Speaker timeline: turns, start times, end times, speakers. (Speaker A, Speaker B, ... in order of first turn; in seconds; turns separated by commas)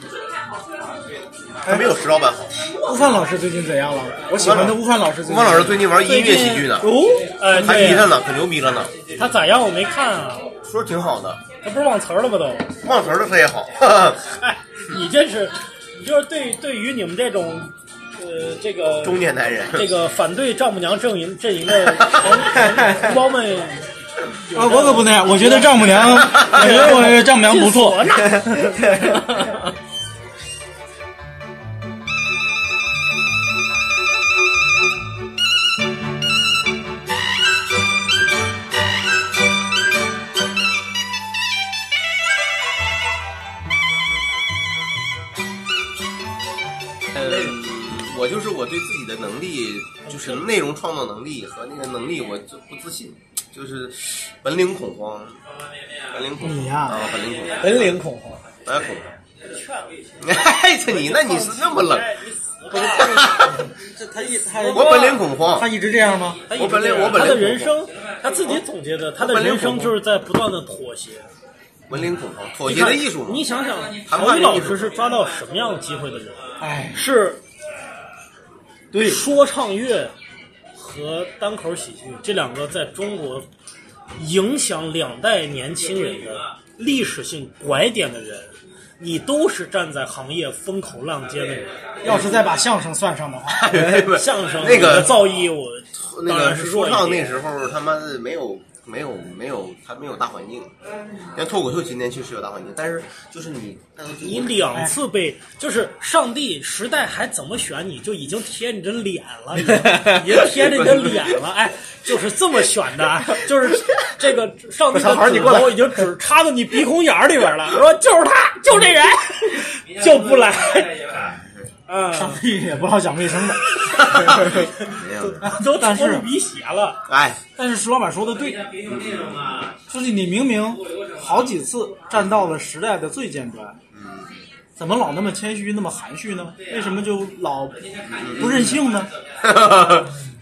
Speaker A: 1.6-2.7, Speaker B: 1.6-1.9, Speaker B: 2.9-5.9, Speaker A: 4.4-6.9, Speaker C: 6.0-8.1, Speaker A: 7.5-9.1, Speaker C: 9.1-10.5, Speaker A: 10.7-11.4, Speaker C: 11.6-12.7, Speaker A: 12.8-14.2, Speaker C: 14.2-29.2, Speaker A: 19.0-19.9, Speaker A: 22.0-22.4, Speaker D: 22.7-23.1, Speaker B: 24.5-28.3, Speaker A: 47.1-55.4, Speaker C: 50.1-50.4, Speaker A: 56.1-57.9, Speaker B: 56.4-57.0, Speaker D: 57.6-58.4, Speaker A: 58.6-59.1, Speaker C: 59.5-63.4, Speaker A: 60.2-62.1, Speaker A: 62.7-63.7, Speaker B: 63.7-66.5, Speaker A: 64.7-65.7, Speaker C: 66.5-71.3, Speaker A: 66.5-67.8, Speaker A: 69.2-70.0, Speaker A: 71.9-73.5, Speaker C: 72.7-76.4, Speaker A: 74.1-74.9, Speaker B: 76.6-77.4, Speaker B: 78.9-79.2, Speaker C: 79.0-80.1, Speaker C: 80.7-83.5, Speaker C: 84.2-91.8, Speaker B: 92.0-93.9, Speaker A: 93.5-95.4, Speaker D: 93.8-94.0, Speaker C: 94.1-97.4, Speaker A: 96.0-100.7, Speaker A: 101.3-104.8, Speaker C: 104.2-121.2, Speaker D: 109.7-110.2, Speaker A: 110.4-111.3, Speaker D: 114.9-115.9, Speaker A: 121.1-121.7, Speaker C: 121.9-122.4, Speaker B: 122.1-124.4, Speaker A: 123.9-125.4, Speaker C: 124.1-127.0, Speaker B: 125.4-126.3, Speaker A: 127.1-127.4, Speaker B: 127.6-128.8, Speaker A: 128.9-129.8, Speaker B: 129.9-133.8, Speaker A: 133.9-134.4, Speaker B: 134.8-139.1, Speaker A: 138.0-138.8, Speaker A: 139.4-140.2